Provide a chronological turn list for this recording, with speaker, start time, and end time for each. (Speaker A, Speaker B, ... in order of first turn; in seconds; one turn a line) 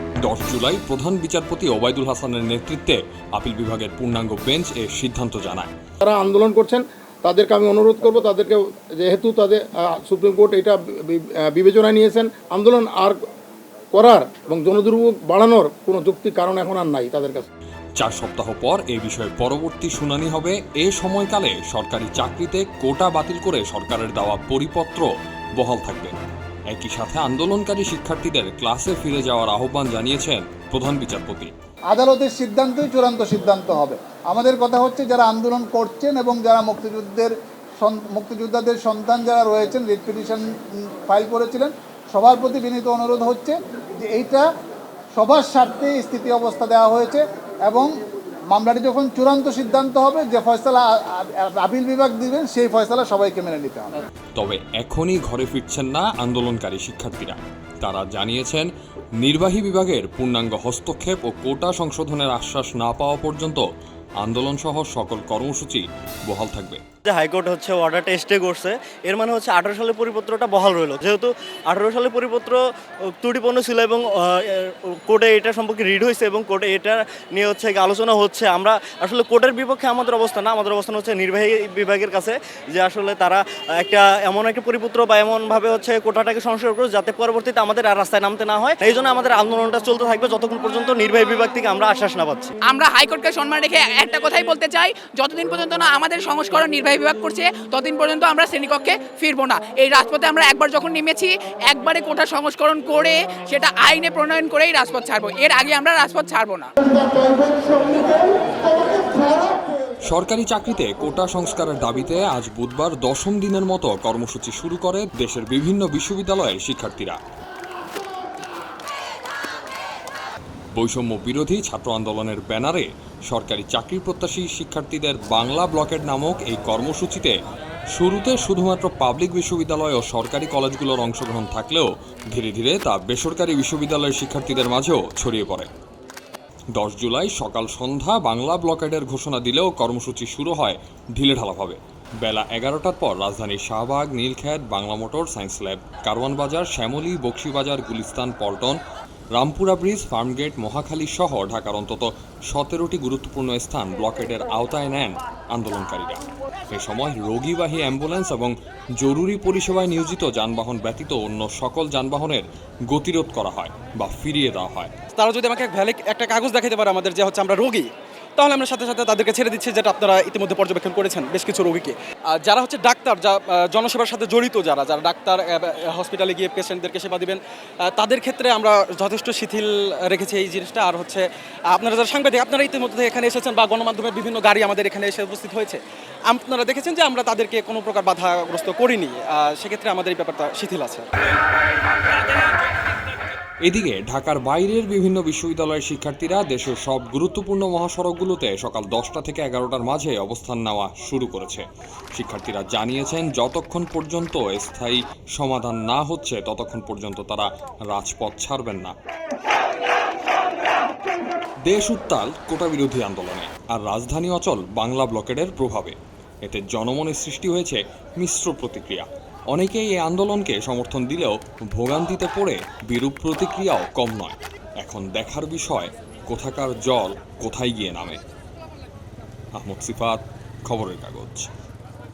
Speaker A: 0.2-5.7
Speaker B: 6.0-13.2
Speaker B: 13.9-17.5
Speaker A: 18.0-26.1
Speaker A: 26.7-31.5
Speaker C: 31.9-40.5
Speaker C: 41.0-44.5
Speaker C: 45.2-47.9
Speaker C: 48.5-53.9
Speaker A: 54.4-63.7
Speaker A: 64.2-66.8
Speaker D: 67.1-72.6
Speaker D: 73.2-92.5
Speaker E: 92.7-106.7
Speaker A: 110.1-117.2
Speaker A: 120.8-127.4
Speaker A: 128.0-135.7
Speaker A: 136.8-148.8
Speaker A: 149.4-156.2
Speaker A: 156.7-164.9
Speaker F: 165.1-191.1
Speaker A: 193.7-208.9
Speaker A: 211.7-228.2
Speaker A: 229.6-231.5